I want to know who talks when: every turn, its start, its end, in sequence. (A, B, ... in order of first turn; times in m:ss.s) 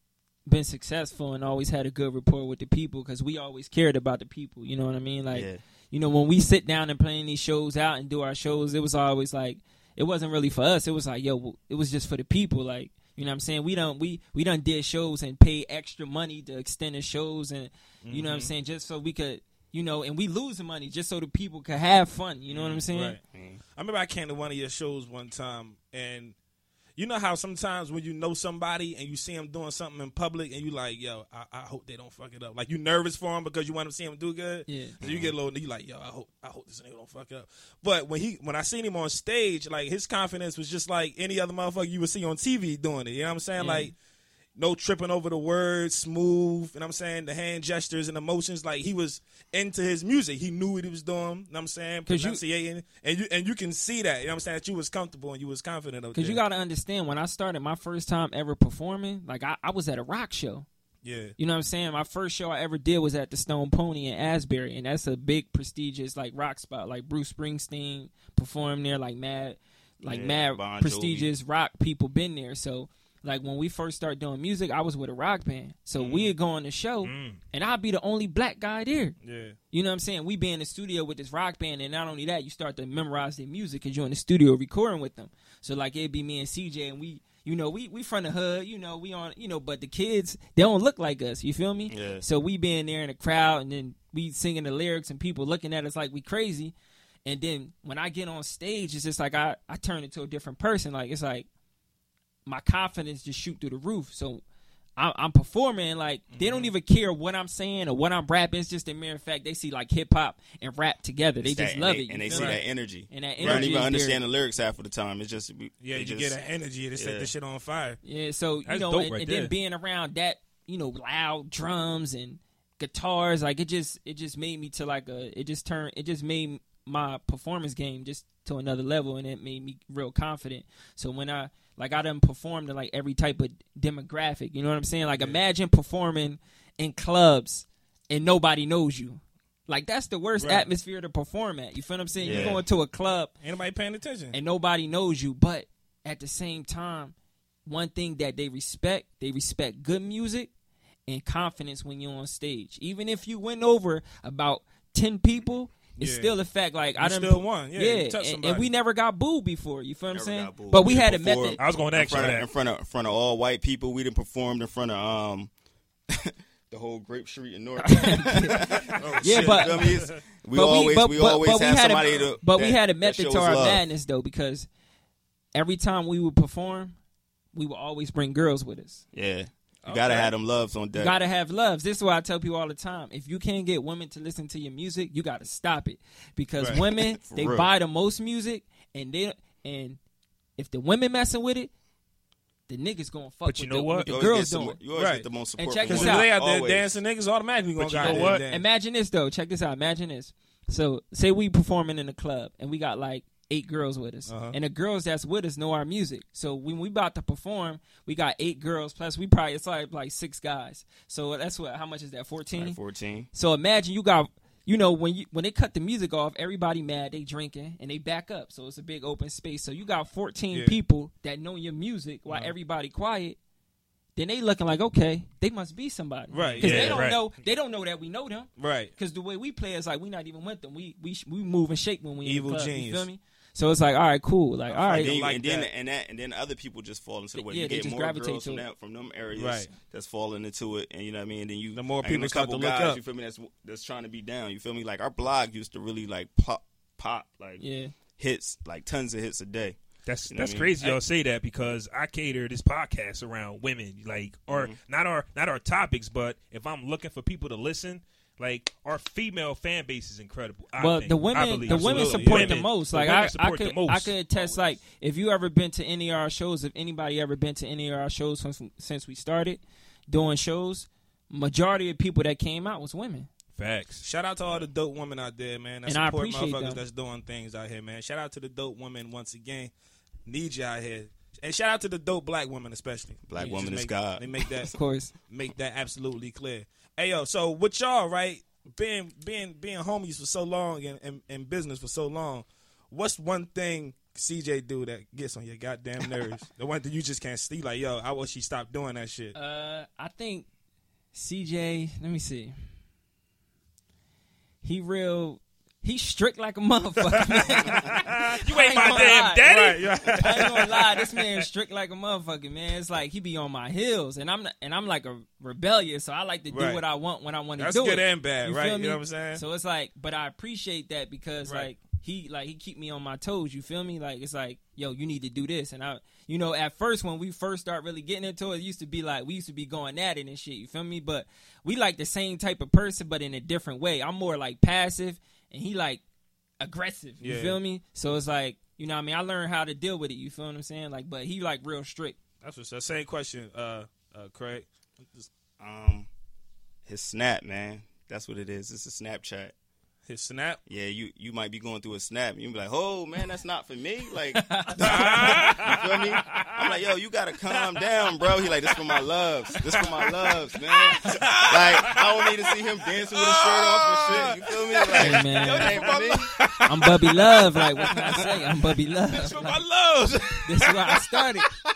0:00.4-0:23.2 A
0:05.3-0:05.6 B
0:18.0-0:18.5 C
0:22.9-0:23.2 C
0:23.3-0:23.6 B
0:23.7-0:26.3 C
0:27.0-0:43.9 C
0:34.7-0:35.0 A
0:35.0-0:35.3 B
0:43.6-0:43.9 A
0:44.6-0:56.4 C
0:52.1-0:52.4 A
0:56.1-1:00.7 A
1:01.0-1:01.4 C
1:01.4-1:19.2 A
1:10.0-1:11.3 B
1:16.0-1:16.3 D
1:17.0-1:17.4 D
1:19.2-1:19.6 C
1:19.7-1:36.7 A
1:31.9-1:32.2 B
1:37.2-1:41.4 A
1:42.4-1:44.4 A
1:45.0-1:54.2 A
1:46.3-1:46.7 C
1:51.4-1:56.4 B
1:52.3-1:52.6 C
1:53.4-1:53.7 C
1:55.8-1:58.0 C
1:57.0-1:57.3 B
1:58.0-2:23.3 A
1:58.6-1:59.5 D
2:20.4-2:20.7 C
2:22.2-2:22.6 C
2:22.2-2:22.6 B
2:23.4-2:24.4 C
2:24.3-2:27.1 A
2:27.6-2:30.5 A
2:31.1-2:41.6 A
2:36.0-2:36.3 C
2:37.0-2:38.7 C
2:40.1-2:45.5 B
2:41.6-2:42.5 D
2:46.1-2:53.8 B
2:47.9-2:49.9 A
2:48.9-2:50.2 C
2:50.5-2:54.7 A
2:55.5-2:57.0 A
2:57.5-2:59.0 A
2:59.1-3:01.2 B
2:59.8-3:00.3 C
3:01.0-3:10.0 A
3:06.8-3:07.7 B
3:10.6-3:11.7 A
3:12.7-3:14.8 A
3:13.4-3:14.1 D
3:14.1-3:17.0 B
3:14.9-3:15.3 C
3:15.6-3:16.3 A
3:15.8-3:18.6 C
3:17.8-3:18.4 D
3:18.0-3:32.8 A
3:24.3-3:24.6 C
3:32.6-3:33.3 B
3:33.3-3:43.4 A
3:40.5-3:40.8 C
3:42.3-3:42.5 C
3:44.2-3:55.2 A
3:46.3-3:47.1 C
3:46.6-3:47.2 D
3:48.6-3:48.9 C
3:52.2-3:53.1 C
3:54.7-3:55.7 C
3:55.0-4:07.6 B
3:57.3-3:58.6 A
3:59.3-3:59.7 C
4:01.7-4:03.0 C
4:07.6-4:07.9 A
4:08.2-4:09.8 B
4:10.0-4:24.2 D
4:10.3-4:11.0 B
4:14.5-4:14.8 B
4:20.8-4:33.3 A
4:21.6-4:22.6 C
4:33.6-4:34.0 D
4:34.0-4:39.7 C
4:35.8-4:36.8 A
4:40.2-4:44.7 C
4:43.3-4:44.6 B
4:44.7-4:45.1 A
4:45.3-4:59.3 C
4:59.3-5:00.5 A
5:01.1-5:02.6 A
5:04.6-5:09.5 A
5:07.2-5:10.8 C
5:08.4-5:10.1 D
5:10.1-5:36.0 A
5:16.5-5:16.8 C
5:17.6-5:19.4 C
5:36.6-5:42.2 A
5:37.2-5:37.6 C
5:42.4-5:45.3 C
5:45.6-5:46.1 B
5:46.9-5:49.5 B
5:50.0-5:50.6 C
5:50.7-6:06.2 B
5:54.4-5:54.7 A
5:54.8-5:56.4 C
5:54.8-5:55.8 D
6:00.8-6:02.3 C
6:01.0-6:01.9 D
6:03.2-6:04.3 D
6:03.6-6:07.5 C
6:05.0-6:05.7 A
6:05.3-6:06.6 D
6:06.6-6:09.5 A
6:09.1-6:10.7 D
6:10.4-6:11.5 A